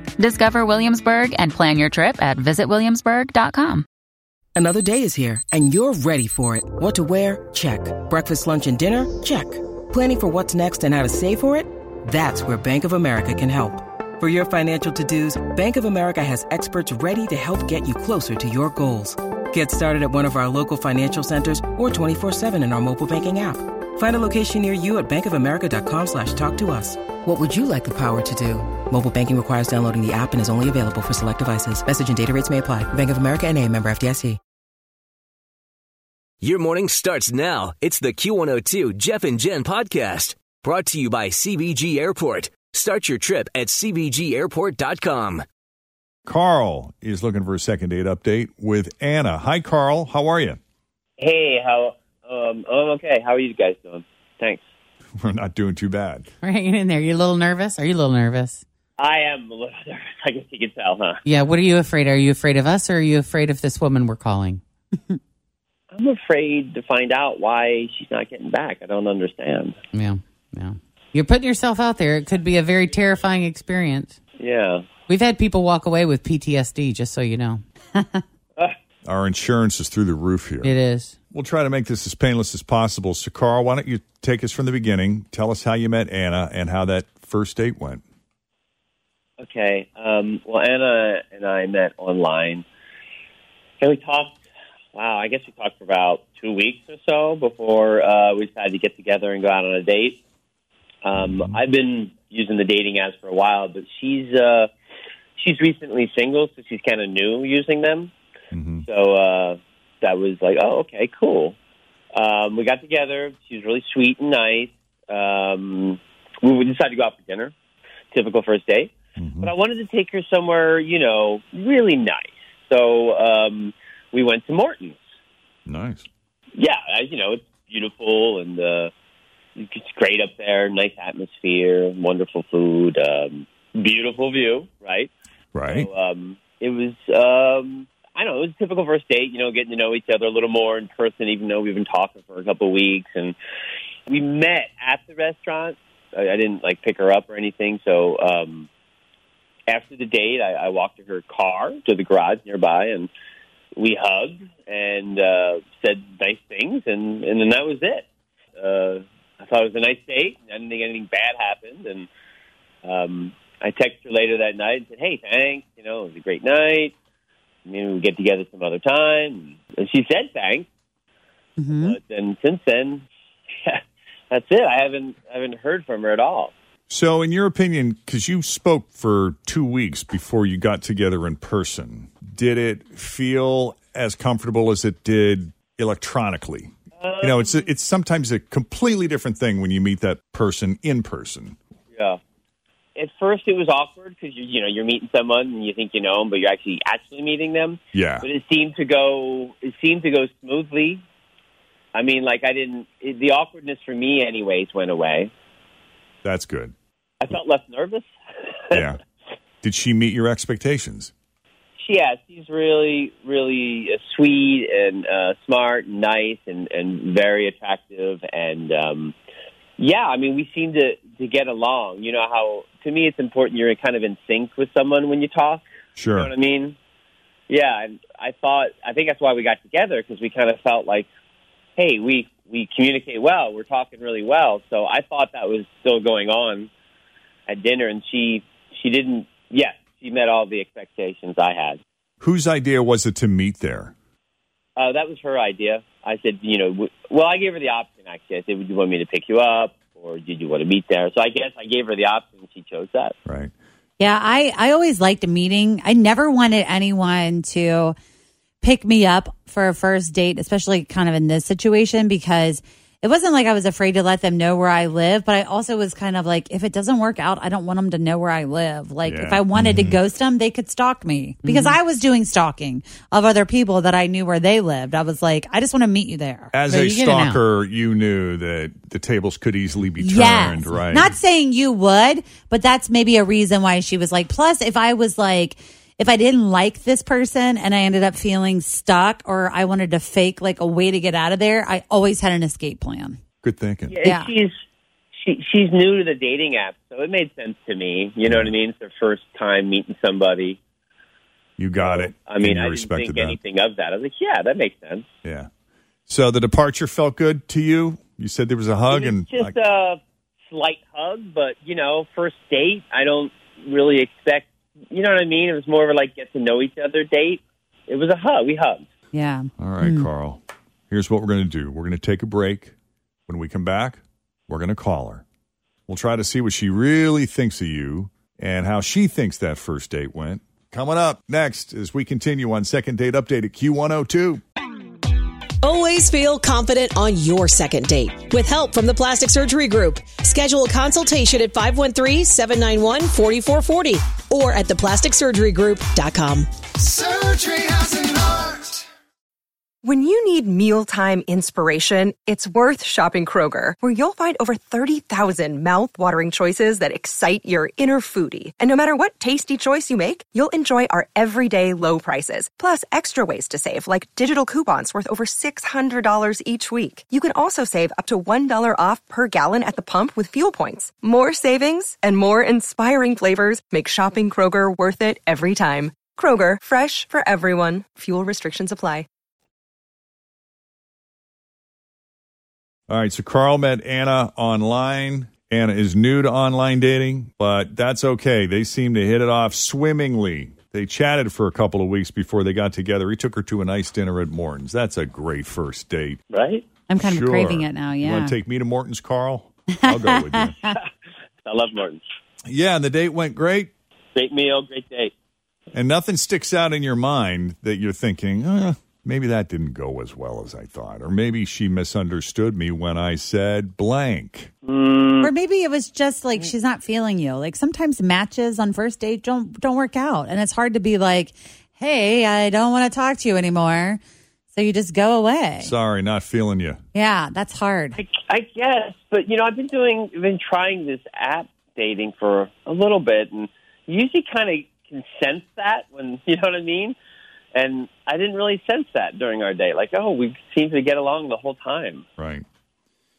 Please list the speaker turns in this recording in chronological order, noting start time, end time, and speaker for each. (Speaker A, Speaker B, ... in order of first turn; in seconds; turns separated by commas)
Speaker A: 0.2-3.8, Speaker B: 4.5-34.4, Speaker C: 36.5-45.3, Speaker D: 46.2-50.6, Speaker E: 51.2-54.6, Speaker D: 55.2-56.3, Speaker F: 56.4-58.6, Speaker E: 59.0-61.2, Speaker F: 61.2-64.6, Speaker E: 65.9-69.8, Speaker F: 69.9-74.2, Speaker E: 74.4-74.8, Speaker F: 75.1-77.6, Speaker D: 79.1-80.7, Speaker F: 80.6-81.1, Speaker D: 81.3-88.0, Speaker E: 89.4-92.6, Speaker E: 93.8-94.4, Speaker E: 94.9-100.2, Speaker E: 101.0-104.7, Speaker D: 101.1-101.6, Speaker E: 105.4-108.1, Speaker D: 108.5-108.8, Speaker E: 108.8-111.5, Speaker E: 112.1-117.5, Speaker E: 118.1-125.0, Speaker D: 119.2-119.5, Speaker D: 125.7-126.1, Speaker E: 126.6-128.9, Speaker E: 129.6-135.1, Speaker D: 135.5-135.9, Speaker E: 135.6-143.3, Speaker E: 144.1-148.7, Speaker E: 149.7-153.1, Speaker E: 153.8-158.1, Speaker E: 158.6-162.1, Speaker E: 162.8-166.9, Speaker E: 167.7-170.7, Speaker G: 171.6-172.0, Speaker E: 171.8-173.1, Speaker E: 174.3-176.5, Speaker D: 176.9-191.6, Speaker E: 187.0-187.6, Speaker E: 191.9-192.2, Speaker E: 192.9-201.0, Speaker D: 197.9-198.2, Speaker E: 201.9-205.3, Speaker D: 206.2-206.7, Speaker E: 207.2-208.1, Speaker D: 208.7-209.0, Speaker D: 209.6-211.1, Speaker E: 211.8-219.1, Speaker E: 219.8-225.6, Speaker D: 225.9-226.3, Speaker E: 226.1-226.8, Speaker E: 227.5-231.1, Speaker E: 231.8-236.7, Speaker E: 237.5-241.8, Speaker D: 242.2-243.9, Speaker E: 244.8-253.1, Speaker D: 253.2-253.5, Speaker G: 254.0-257.9, Speaker G: 258.6-276.5, Speaker D: 269.0-270.0, Speaker F: 271.4-271.8, Speaker D: 276.5-281.1, Speaker F: 276.7-277.4, Speaker G: 280.0-293.2, Speaker D: 293.4-294.0, Speaker E: 293.9-294.5, Speaker G: 294.0-294.3, Speaker E: 295.1-300.6, Speaker D: 298.2-298.5, Speaker D: 301.6-303.4, Speaker E: 301.8-305.1, Speaker D: 305.2-305.5, Speaker D: 306.1-309.5, Speaker E: 308.9-318.8, Speaker G: 319.1-320.1, Speaker D: 319.6-322.7, Speaker D: 323.3-325.2, Speaker D: 325.9-334.4, Speaker H: 335.6-348.7, Speaker I: 349.8-379.1, Speaker D: 382.9-396.2, Speaker E: 396.3-396.6, Speaker G: 396.9-398.4, Speaker D: 397.0-400.6, Speaker G: 399.8-400.5, Speaker E: 401.4-402.0, Speaker D: 402.5-403.7, Speaker E: 404.1-405.1, Speaker D: 405.7-414.5, Speaker E: 414.6-415.3, Speaker G: 415.2-424.0, Speaker G: 424.5-425.7, Speaker D: 425.6-426.8, Speaker G: 426.9-428.0, Speaker E: 427.9-436.9, Speaker E: 437.5-442.0, Speaker D: 442.2-442.4